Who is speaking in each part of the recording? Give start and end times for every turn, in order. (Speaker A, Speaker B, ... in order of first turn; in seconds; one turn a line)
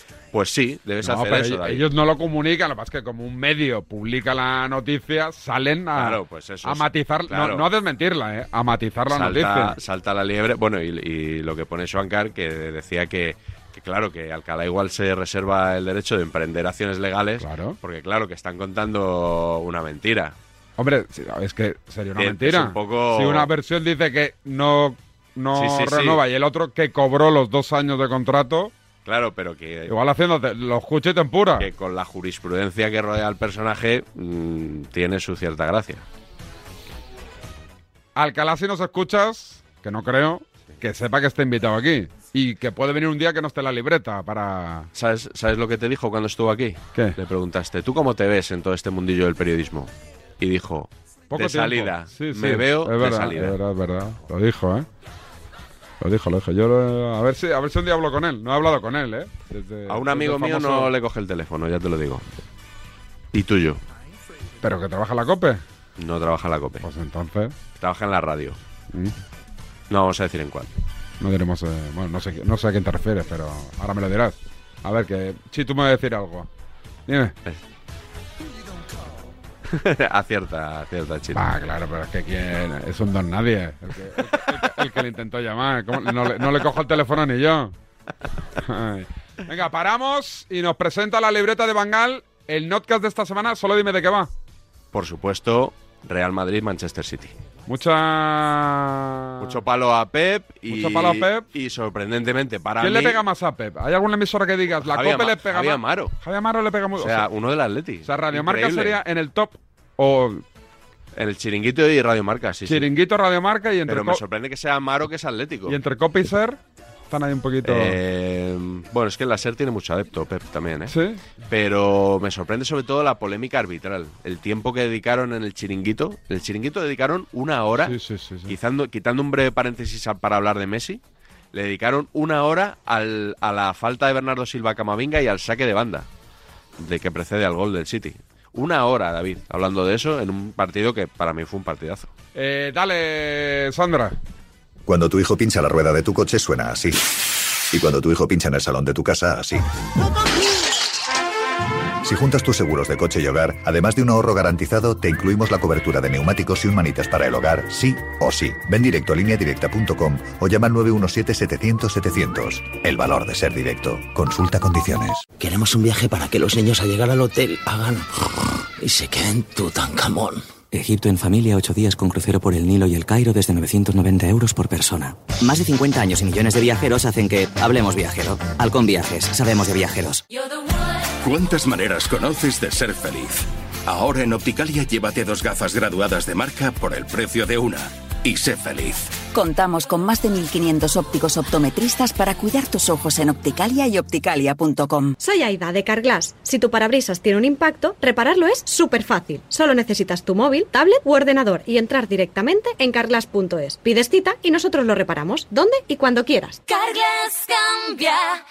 Speaker A: 0.3-1.8
Speaker B: 1.0-9.8
Speaker A: 5.9-7.7
Speaker A: 9.1-20.4
Speaker B: 17.4-17.8
Speaker B: 20.8-28.7
Speaker A: 22.2-23.5
Speaker A: 25.5-26.2
Speaker A: 29.0-29.9
Speaker B: 29.9-31.7
Speaker A: 31.6-36.0
Speaker B: 38.1-44.9
Speaker A: 44.9-53.6
Speaker B: 51.3-54.9
Speaker B: 56.0-60.9
Speaker A: 59.9-62.2
Speaker A: 63.3-63.8
Speaker B: 64.6-65.6
Speaker A: 66.0-66.9
Speaker B: 66.8-67.5
Speaker A: 67.8-68.6
Speaker A: 69.9-70.7
Speaker B: 71.2-76.5
Speaker B: 77.1-77.3
Speaker A: 79.7-81.4
Speaker B: 81.3-87.7
Speaker B: 88.6-94.3
Speaker A: 94.9-97.3
Speaker B: 97.7-99.6
Speaker A: 99.4-103.2
Speaker B: 100.7-101.5
Speaker B: 102.8-107.3
Speaker A: 104.8-106.1
Speaker A: 107.0-109.0
Speaker B: 108.0-110.4
Speaker A: 111.1-112.9
Speaker B: 112.7-114.2
Speaker A: 113.9-115.8
Speaker B: 115.7-116.6
Speaker B: 117.1-118.0
Speaker A: 117.6-120.9
Speaker B: 120.9-121.2
Speaker A: 121.5-127.9
Speaker B: 127.8-128.5
Speaker A: 128.5-131.0
Speaker A: 131.5-136.1
Speaker A: 136.8-142.1
Speaker B: 142.3-144.1
Speaker C: 144.9-147.0
Speaker C: 147.7-149.6
Speaker C: 152.0-165.2
Speaker D: 165.4-167.8
Speaker D: 168.8-170.1
Speaker E: 170.7-175.2
Speaker F: 181.2-189.1
Speaker G: 189.3-195.1
Speaker H: 195.2-206.6